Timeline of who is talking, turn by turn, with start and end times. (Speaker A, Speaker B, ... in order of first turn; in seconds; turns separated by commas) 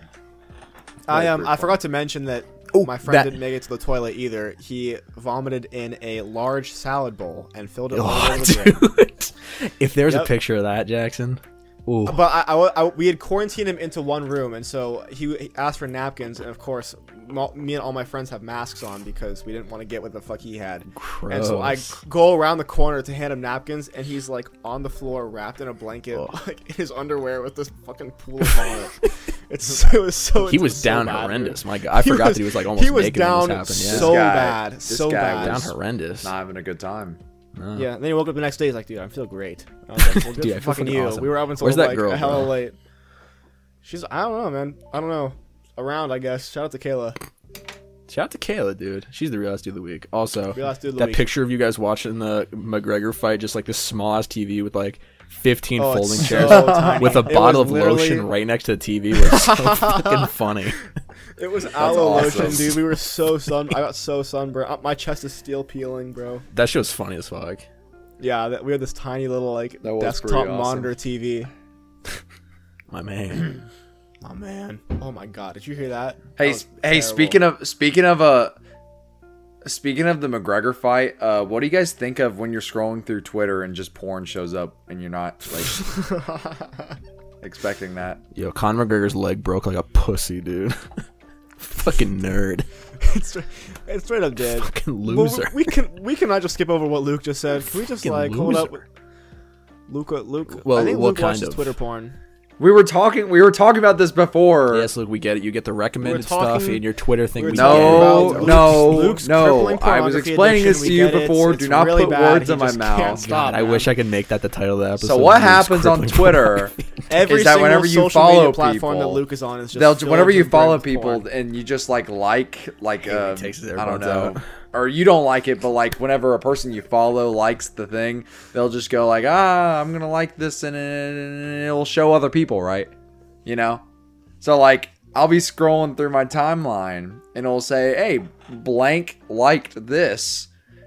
Speaker A: 1.1-8.9, Speaker B: 1.1-1.7, Speaker C: 2.7-3.4, Speaker C: 7.9-12.2, Speaker A: 10.1-10.3, Speaker A: 12.1-35.7, Speaker C: 20.9-22.0, Speaker C: 30.4-34.2, Speaker B: 33.9-37.2, Speaker C: 35.3-36.3, Speaker C: 37.6-37.9, Speaker A: 37.7-42.8, Speaker C: 40.0-42.5, Speaker A: 43.8-47.2, Speaker C: 48.1-60.9, Speaker A: 50.5-51.3, Speaker A: 55.8-58.3, Speaker B: 56.4-57.2, Speaker A: 59.2-60.3, Speaker A: 61.4-66.5, Speaker B: 61.8-62.8, Speaker C: 61.9-62.7, Speaker C: 66.5-67.7, Speaker A: 68.2-71.5, Speaker B: 69.8-70.9, Speaker C: 72.9-73.6, Speaker A: 74.2-77.4, Speaker B: 76.4-78.6, Speaker B: 79.6-85.8, Speaker A: 86.0-86.9, Speaker B: 87.4-88.2, Speaker C: 88.3-90.8, Speaker C: 91.6-92.7, Speaker A: 93.0-98.8, Speaker C: 94.6-95.7, Speaker C: 97.9-98.8, Speaker A: 99.9-102.2, Speaker C: 100.5-101.7, Speaker B: 102.6-104.9, Speaker C: 104.7-109.1, Speaker A: 106.0-106.8, Speaker A: 107.4-113.9, Speaker B: 107.5-113.3, Speaker C: 113.1-116.8, Speaker B: 115.0-119.2, Speaker A: 117.1-121.2, Speaker B: 119.7-132.9, Speaker C: 123.0-124.4, Speaker B: 133.4-133.8, Speaker B: 134.4-140.5